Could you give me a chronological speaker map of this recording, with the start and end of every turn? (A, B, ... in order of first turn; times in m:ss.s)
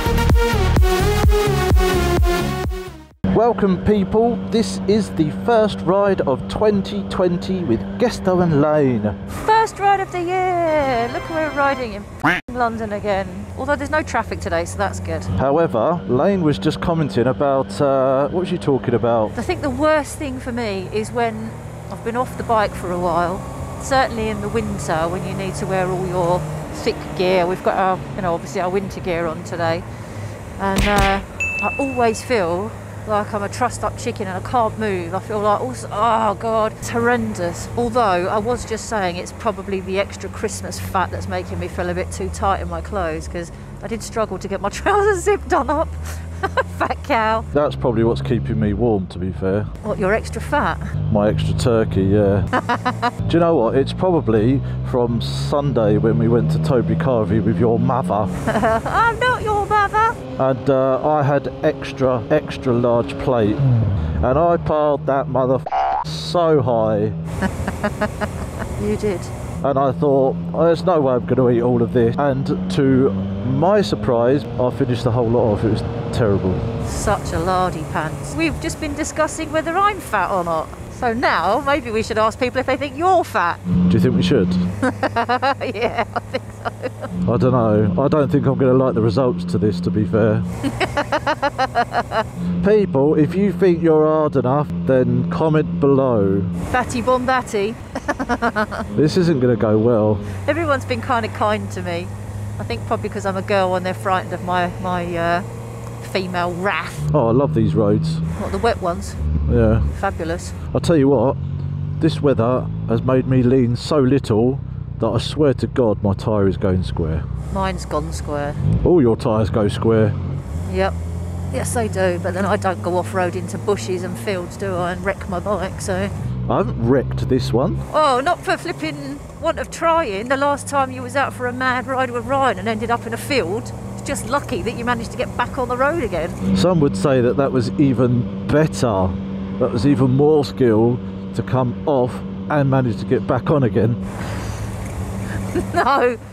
0:03.3-0:09.2 A
0:09.3-0:15.3 B
0:15.4-0:19.4 A
0:19.4-0:29.9 B
0:30.6-0:47.5 B
0:47.5-0:49.7 A
0:49.8-0:50.9 B
0:51.1-0:52.5 A
0:52.6-0:53.1 B
0:53.2-0:58.3 A
0:58.4-1:00.2 B
1:00.4-1:03.6 A
1:04.2-1:07.2 A
1:07.6-1:09.3 B
1:09.6-1:16.6 A
1:16.8-1:23.6 B
1:23.9-1:24.6 A
1:24.8-1:27.1 B
1:27.2-1:30.5 A
1:30.6-1:32.2 B
1:32.6-1:36.5 A
1:36.7-1:38.9 B
1:39.0-1:40.3 A
1:40.3-1:45.5 B
1:46.0-1:47.1 B
1:47.1-1:48.2 A
1:48.4-1:49.2 B
1:49.5-1:49.9 A
1:49.9-1:50.6 B
1:50.7-1:51.4 A
1:52.0-1:57.2 A
1:57.5-1:58.6 B
1:58.8-2:00.2 A
2:00.7-2:01.0 B
2:01.5-2:06.1 B
2:06.5-2:07.8 A
2:07.9-2:16.4 B
2:16.5-2:24.0 A
2:25.5-2:26.2 B